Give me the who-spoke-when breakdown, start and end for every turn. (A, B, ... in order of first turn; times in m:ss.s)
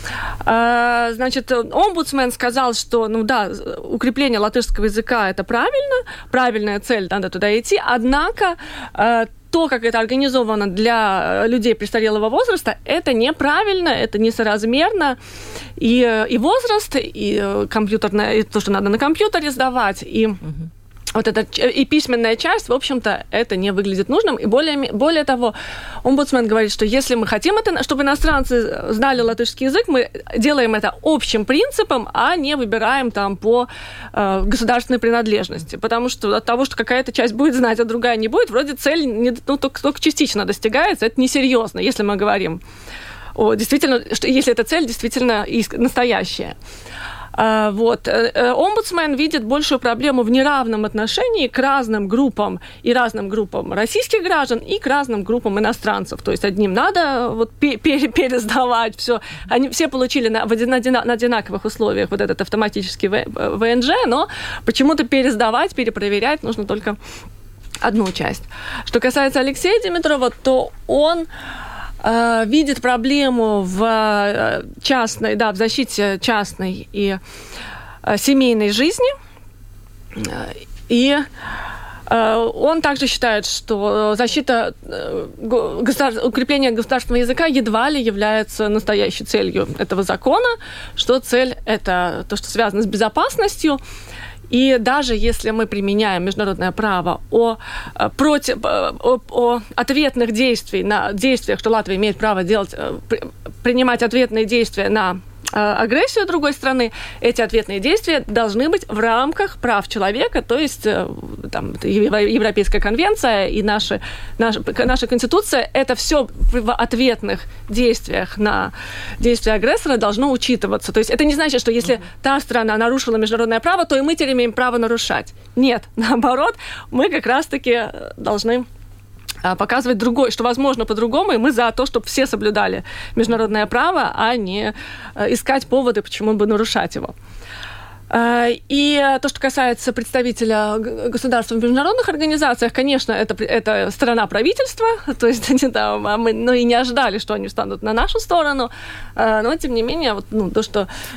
0:00.4-0:15.2 A
0:15.8-0:20.4 A
0:21.1-0:42.6 A
0:43.3-0:46.5 A
0:47.3-1:07.0 A
1:07.8-1:11.3 A
1:12.0-1:17.2 A
1:18.0-1:19.1 A
1:20.2-1:21.2 A
1:22.1-1:33.8 A
1:34.5-2:08.6 A
2:09.4-2:17.1 A
2:18.1-2:30.9 A